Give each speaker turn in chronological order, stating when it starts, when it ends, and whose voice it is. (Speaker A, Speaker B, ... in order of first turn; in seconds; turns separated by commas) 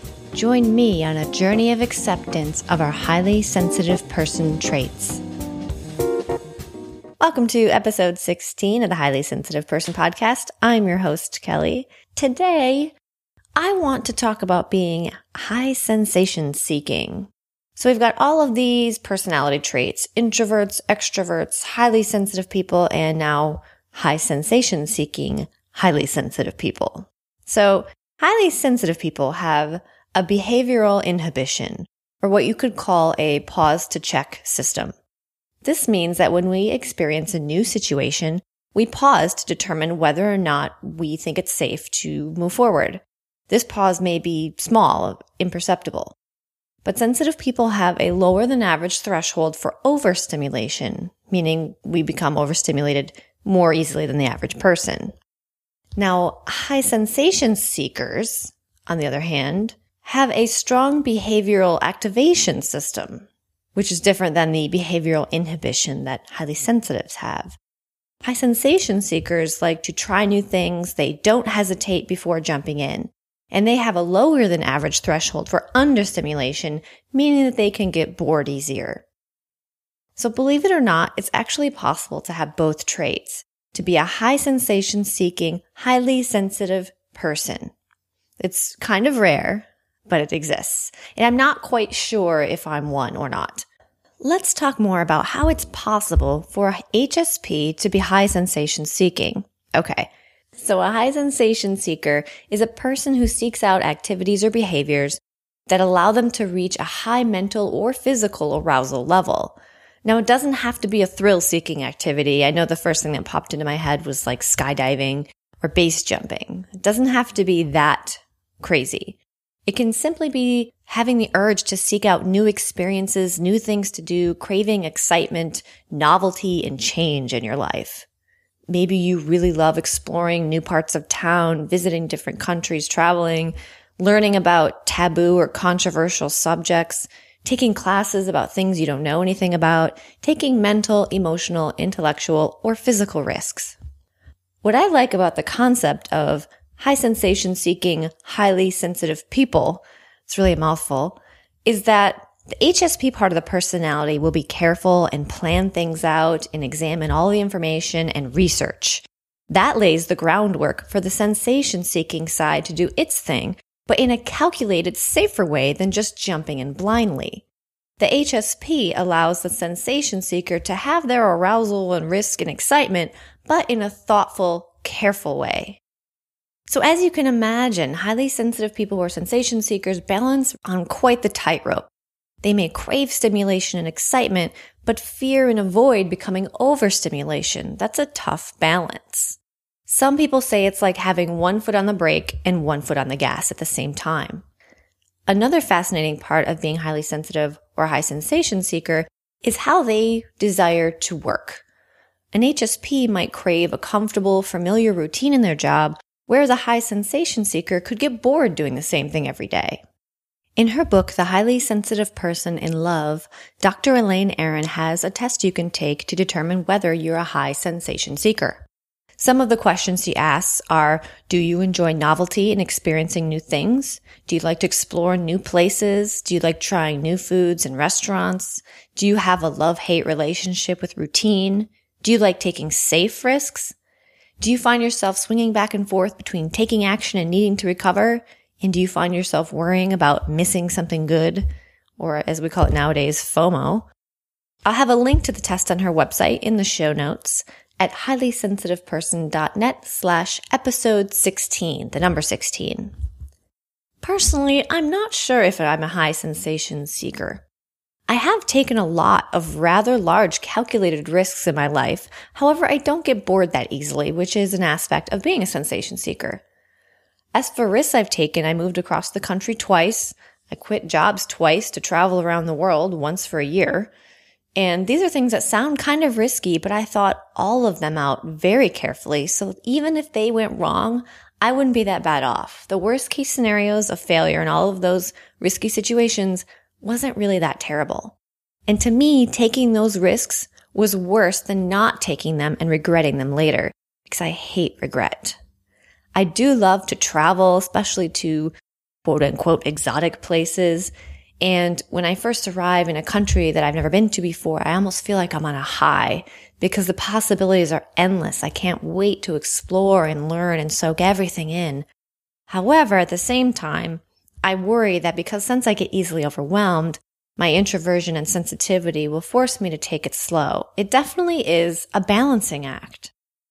Speaker A: 0.3-5.2, Speaker A: 7.2-12.9, Speaker A: 13.6-34.9, Speaker A: 35.6-46.1, Speaker A: 46.8-55.1, Speaker A: 56.0-67.6, Speaker A: 68.2-79.0, Speaker A: 80.2-87.7, Speaker A: 88.4-93.7, Speaker A: 94.2-128.1, Speaker A: 128.7-143.8, Speaker A: 144.6-167.4, Speaker A: 168.0-175.8, Speaker A: 176.7-181.9, Speaker A: 182.4-194.4, Speaker A: 195.3-201.6, Speaker A: 202.3-209.8, Speaker A: 210.6-218.6, Speaker A: 219.2-233.8, Speaker A: 234.4-241.4, Speaker A: 242.0-243.9, Speaker A: 244.7-252.9, Speaker A: 254.0-257.4, Speaker A: 258.1-266.4, Speaker A: 267.3-273.9, Speaker A: 274.6-288.1, Speaker A: 288.7-295.4, Speaker A: 296.1-298.5, Speaker A: 299.0-311.9, Speaker A: 312.5-323.1